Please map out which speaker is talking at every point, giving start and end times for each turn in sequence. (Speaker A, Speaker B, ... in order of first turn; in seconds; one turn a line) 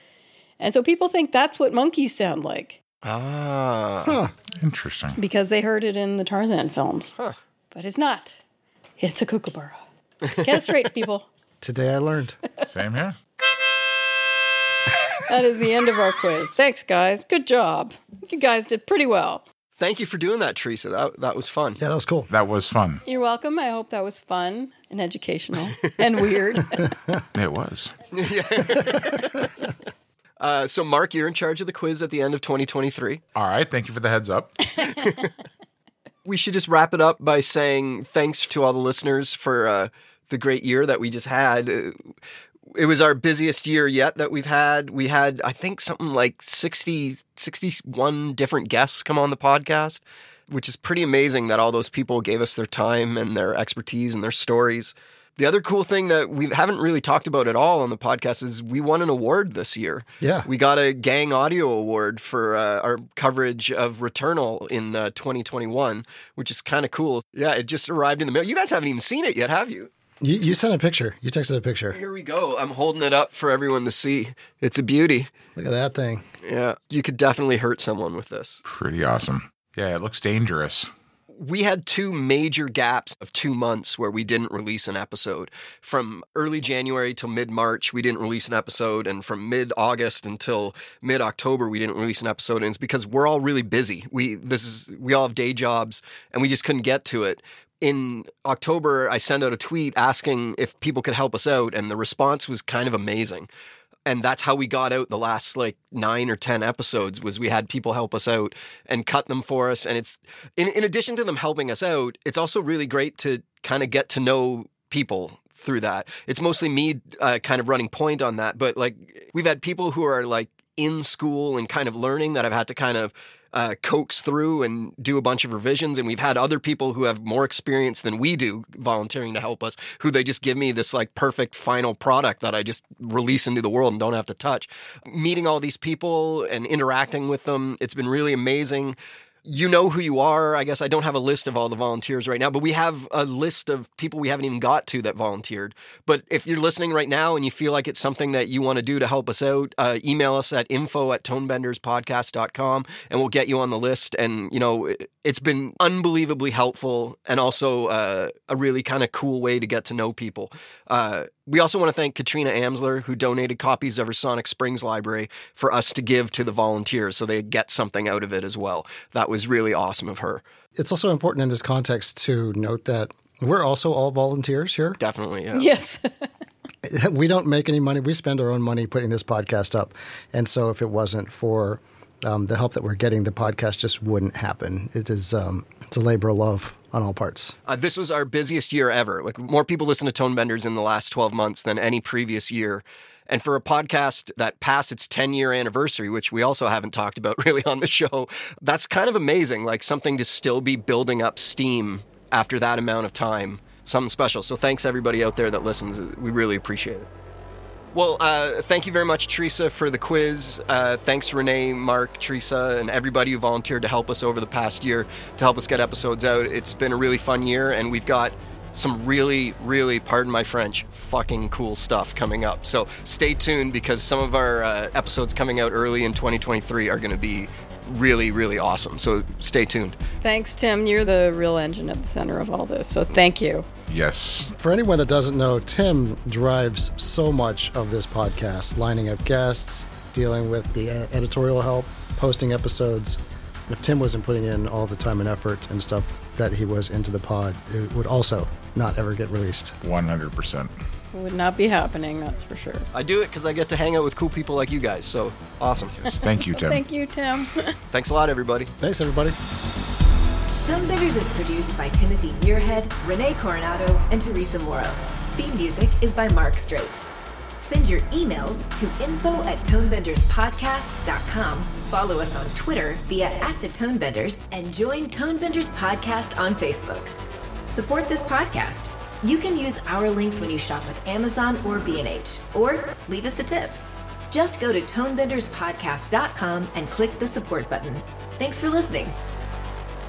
Speaker A: 0.6-2.8
Speaker B: 3.0-4.2
Speaker C: 4.0-4.3
Speaker D: 4.6-5.2
Speaker A: 5.2-7.1
Speaker A: 7.7-8.3
Speaker A: 9.0-9.8
Speaker A: 10.4-11.3
Speaker C: 11.6-12.4
Speaker D: 12.6-13.2
Speaker A: 15.2-19.4
Speaker B: 19.8-21.8
Speaker C: 21.8-22.3
Speaker D: 22.3-23.0
Speaker A: 23.1-26.9
Speaker C: 26.8-27.2
Speaker D: 27.3-27.9
Speaker B: 28.1-29.5
Speaker B: 30.4-33.2
Speaker D: 33.3-35.1
Speaker B: 36.2-42.0
Speaker B: 42.7-69.9
Speaker C: 60.2-60.5
Speaker C: 70.2-72.0
Speaker B: 71.9-75.3
Speaker C: 75.5-76.2
Speaker B: 76.4-78.6
Speaker D: 78.7-80.9
Speaker B: 81.3-103.5
Speaker B: 104.1-170.4
Speaker C: 170.7-175.0
Speaker B: 175.0-175.7
Speaker A: 175.5-176.3
Speaker C: 176.8-187.6
Speaker B: 187.7-207.1
Speaker B: 207.9-229.9
Speaker A: 230.2-233.7
Speaker D: 233.9-234.5
Speaker C: 234.4-249.8
Speaker D: 249.8-250.7
Speaker A: 251.1-252.9
Speaker B: 252.9-256.0
Speaker D: 256.0-256.8
Speaker A: 256.2-257.7
Speaker B: 257.9-258.7
Speaker C: 258.8-259.4
Speaker E: 260.6-267.0
Speaker E: 267.6-277.1
Speaker E: 277.6-289.1